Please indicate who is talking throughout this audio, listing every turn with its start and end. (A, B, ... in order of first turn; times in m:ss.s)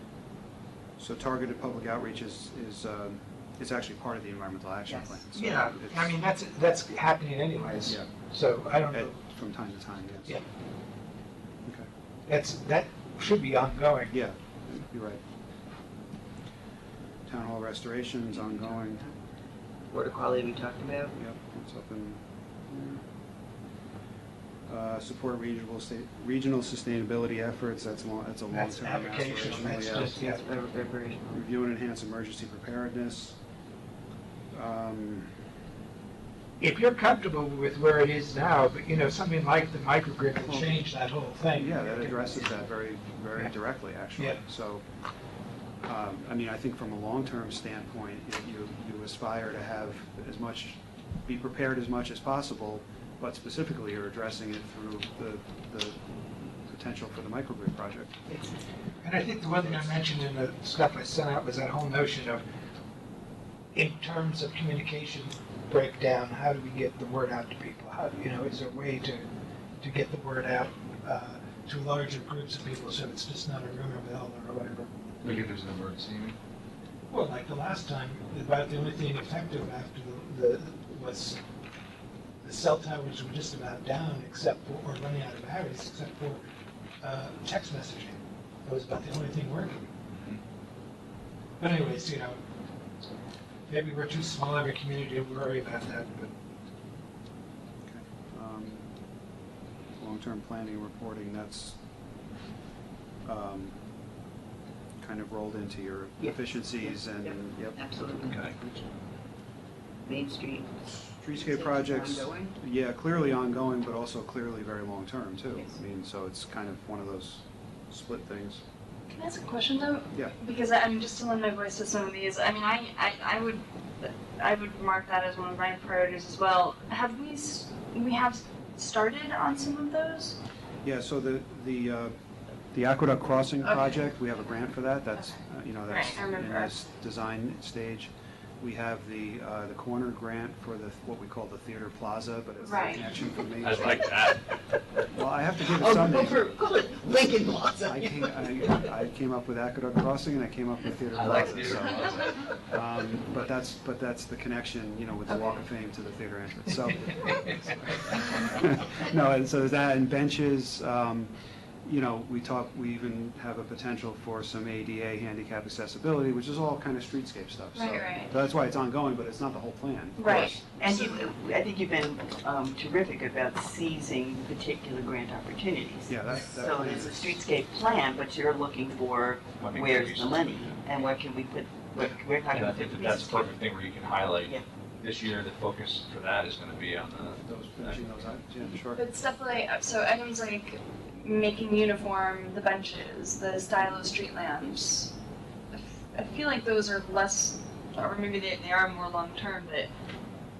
0:01.0-0:06.1 A
0:04.9-0:05.2 B
0:05.3-0:09.2 C
0:08.9-0:10.4 A
0:12.3-0:14.1 C
0:14.1-0:15.2 A
0:17.3-0:19.1 A
0:18.4-0:19.1 B
0:19.9-0:21.1 B
0:21.2-0:23.0 A
0:24.7-0:30.2 A
0:28.5-0:30.4 C
0:30.1-0:31.5 B
0:31.3-0:33.4 A
0:34.5-0:35.3 A
0:36.6-0:42.6 C
0:40.4-0:40.8 A
0:41.5-0:44.8 A
0:44.2-0:44.4 C
0:45.8-0:58.2 A
0:59.0-1:02.4 C
0:59.6-1:00.0 A
1:03.7-1:14.9 C
1:15.2-1:16.4 D
1:17.1-1:21.4 C
1:22.4-1:26.4 C
1:27.0-1:29.8 C
1:31.6-1:32.4 C
1:33.7-1:36.3 C
1:37.9-1:38.9 A
1:40.0-1:41.8 A
1:43.2-1:43.8 A
1:45.0-1:47.8 A
1:46.2-1:48.9 B
1:50.1-1:52.6 B
1:51.1-1:58.6 A
1:59.1-2:10.4 E
2:10.8-2:12.1 A
2:12.7-2:24.1 A
2:13.6-2:14.1 E
2:15.2-2:16.7 E
2:22.6-2:23.1 E
2:23.6-2:24.5 D
2:25.1-2:26.5 A
2:25.6-2:28.9 B
2:27.8-2:41.3 A
2:31.1-2:32.4 D
2:31.2-2:31.8 B
2:35.3-2:35.6 B
2:41.8-2:50.6 A
2:47.8-2:48.3 E
2:50.2-2:51.2 E
2:50.3-3:03.5 B
2:56.1-2:57.4 A
2:59.6-3:00.7 D
3:02.0-3:08.3 D
3:07.5-3:09.0 A
3:08.9-3:15.1 E
3:15.7-3:19.9 E